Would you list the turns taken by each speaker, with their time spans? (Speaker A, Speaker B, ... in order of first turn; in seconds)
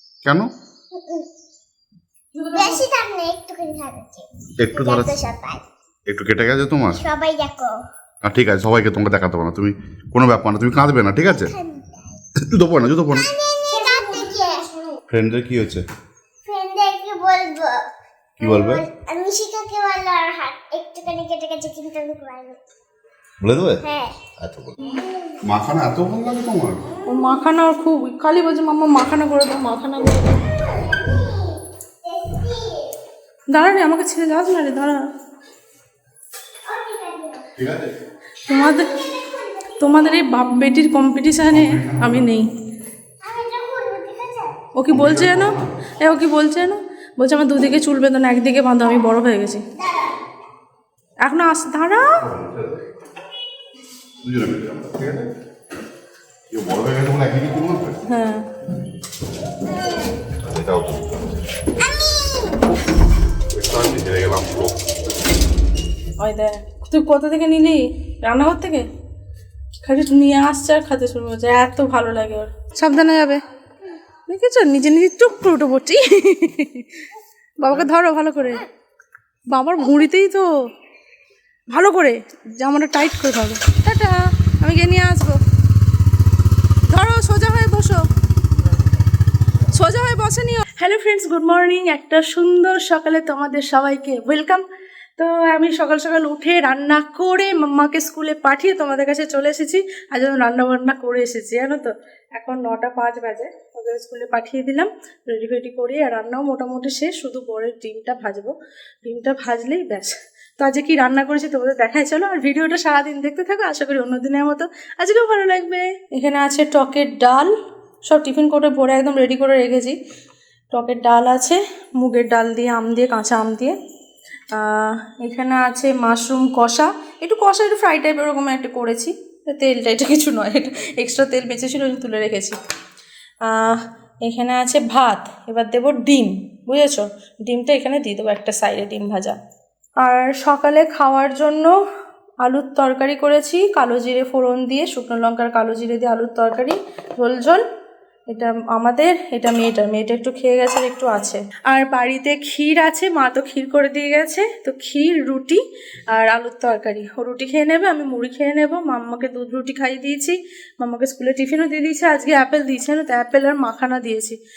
Speaker A: 0.2-0.5, 4.6-5.2, 6.1-7.0, 8.2-11.5, 12.5-13.3, 15.1-15.8, 18.4-18.8, 23.4-23.8, 24.4-24.8, 25.4-26.8, 37.6-37.9, 41.5-42.1, 44.9-45.7, 52.2-52.8, 54.2-55.3, 56.5-58.0, 60.4-61.1, 63.5-64.8
Speaker B: 0.9-1.2, 2.5-5.6, 7.0-7.8, 11.2-12.2, 13.1-14.7, 16.4-17.8, 18.4-22.6, 23.8-24.2, 24.8-25.3, 30.6-32.9, 36.6-37.5, 38.5-40.2, 43.2-44.5, 49.8-50.0, 61.9-62.4
Speaker C: 2.3-2.8, 13.8-14.5, 27.1-30.5, 33.5-35.0, 38.5-38.9, 39.8-42.5, 44.7-49.6, 51.2-52.2, 58.1-58.5, 66.2-68.9, 69.8-73.4, 74.2-77.0, 77.6-78.6, 79.5-80.5, 81.7-85.4, 86.9-88.0, 89.7-94.6, 95.2-108.5, 109.0-117.5, 118.0-120.0, 120.7-123.8, 124.5-132.6, 133.4-139.4, 140.0-141.7, 142.4-147.6, 148.3-164.4